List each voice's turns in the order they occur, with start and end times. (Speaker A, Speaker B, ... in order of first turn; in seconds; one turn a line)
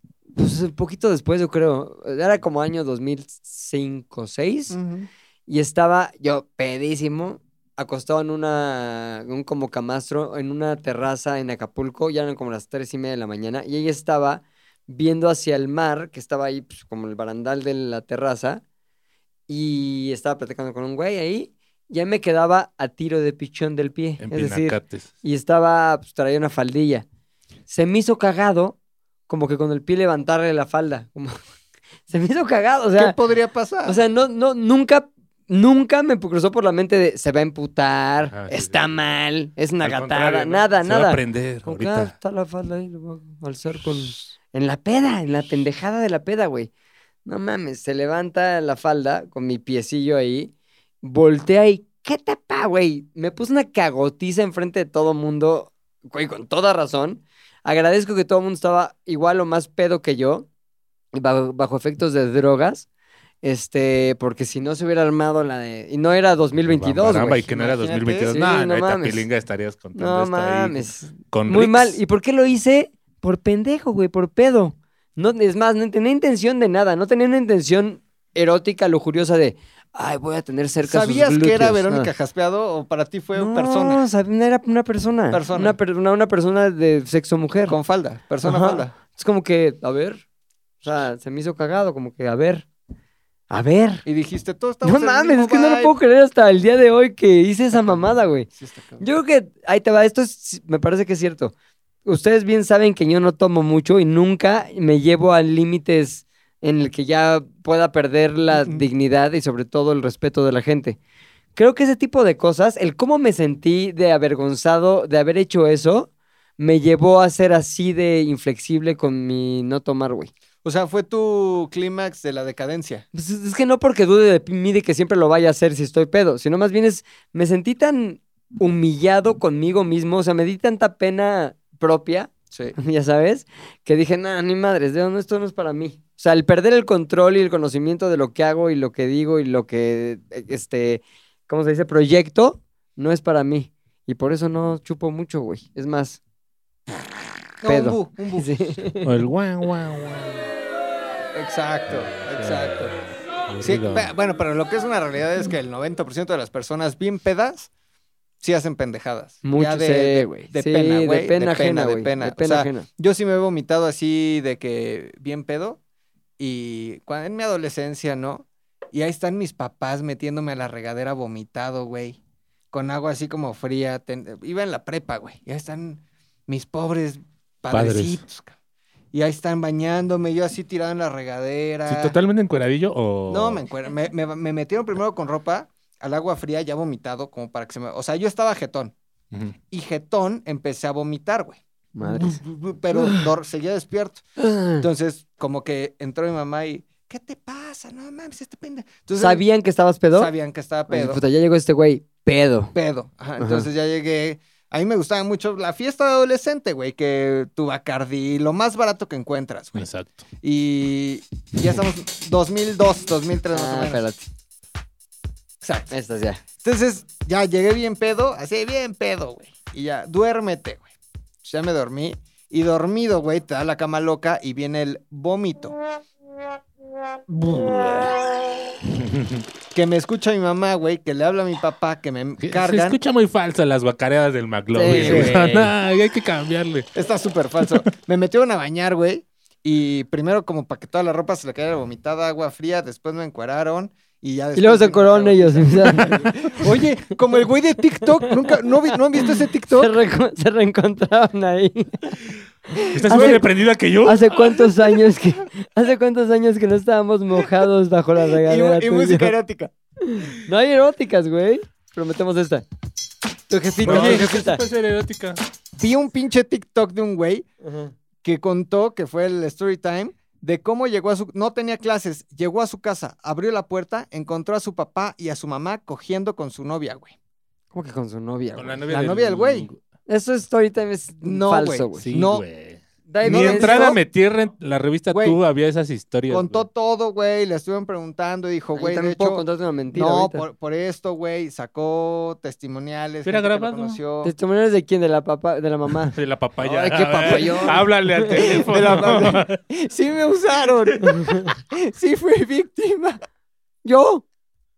Speaker A: 0.3-4.8
Speaker B: 4.7-5.1
Speaker A: 5.5-18.6
Speaker A: 19.5-27.1
Speaker C: 24.2-25.1
Speaker A: 27.7-28.8
Speaker A: 29.3-31.4
Speaker A: 32.1-33.1
Speaker B: 33.0-34.0
Speaker A: 33.8-46.7
Speaker C: 38.3-38.9
Speaker C: 39.8-42.1
Speaker A: 47.2-60.5
Speaker A: 61.1-62.9
Speaker A: 63.4-67.5
Speaker C: 66.6-72.0
Speaker B: 67.4-68.4
Speaker A: 68.3-69.2
Speaker A: 69.9-82.1
Speaker B: 80.8-84.0
Speaker A: 83.3-87.8
Speaker B: 85.3-85.8
Speaker B: 87.7-88.9
Speaker A: 88.4-90.2
Speaker A: 90.8-92.7
Speaker A: 93.5-94.0
Speaker B: 94.0-95.9
Speaker A: 94.8-98.5
Speaker B: 97.7-98.0
Speaker B: 98.5-99.1
Speaker A: 99.0-101.5
Speaker A: 102.0-111.0
Speaker B: 108.5-108.9
Speaker A: 111.5-120.3
Speaker B: 120.6-123.0
Speaker A: 123.1-146.2
Speaker B: 147.6-148.5
Speaker A: 147.7-149.1
Speaker C: 149.0-150.5
Speaker B: 151.3-152.9
Speaker C: 151.9-154.1
Speaker B: 153.6-157.7
Speaker B: 158.4-165.8
Speaker A: 159.4-162.9
Speaker B: 166.4-172.2
Speaker B: 172.7-178.6
Speaker C: 177.7-178.2
Speaker B: 179.1-182.2
Speaker C: 181.8-183.6
Speaker B: 183.3-188.9
Speaker B: 189.7-194.2
Speaker A: 191.9-192.4
Speaker A: 192.9-193.3
Speaker A: 194.4-194.8
Speaker B: 194.8-199.4
Speaker A: 199.2-200.3
Speaker B: 200.1-201.2
Speaker A: 200.9-202.7
Speaker B: 202.7-209.9
Speaker A: 203.4-203.7
Speaker C: 209.8-210.2
Speaker B: 210.4-214.1
Speaker A: 213.5-214.2
Speaker B: 215.6-215.9
Speaker A: 215.9-216.4
Speaker B: 216.6-220.9
Speaker B: 221.4-225.8
Speaker B: 227.5-227.9
Speaker A: 227.5-228.0
Speaker C: 229.0-229.4
Speaker B: 229.7-233.0
Speaker C: 232.4-236.9
Speaker A: 234.7-235.7
Speaker B: 234.9-235.6
Speaker B: 236.9-249.9
Speaker A: 244.6-246.3
Speaker A: 248.2-248.7
Speaker A: 249.2-252.0
Speaker B: 252.8-253.4
Speaker C: 252.8-255.0
Speaker A: 253.1-253.4
Speaker A: 254.0-259.3
Speaker B: 258.3-259.7
Speaker A: 260.0-262.6
Speaker A: 263.5-264.6
Speaker B: 263.8-264.3
Speaker C: 263.8-265.4
Speaker B: 265.8-267.5
Speaker A: 267.6-267.9
Speaker B: 268.2-277.1
Speaker A: 277.7-278.8
Speaker C: 278.6-279.8
Speaker B: 278.9-279.7
Speaker A: 280.1-282.1
Speaker B: 281.2-282.4
Speaker C: 282.0-286.6
Speaker A: 283.1-284.0
Speaker B: 283.2-284.0
Speaker B: 285.1-285.4
Speaker B: 286.3-294.3
Speaker A: 288.7-290.4
Speaker C: 293.2-294.0
Speaker A: 294.2-298.4
Speaker C: 296.1-299.6
Speaker B: 297.2-303.2
Speaker A: 301.0-301.5
Speaker A: 303.8-304.2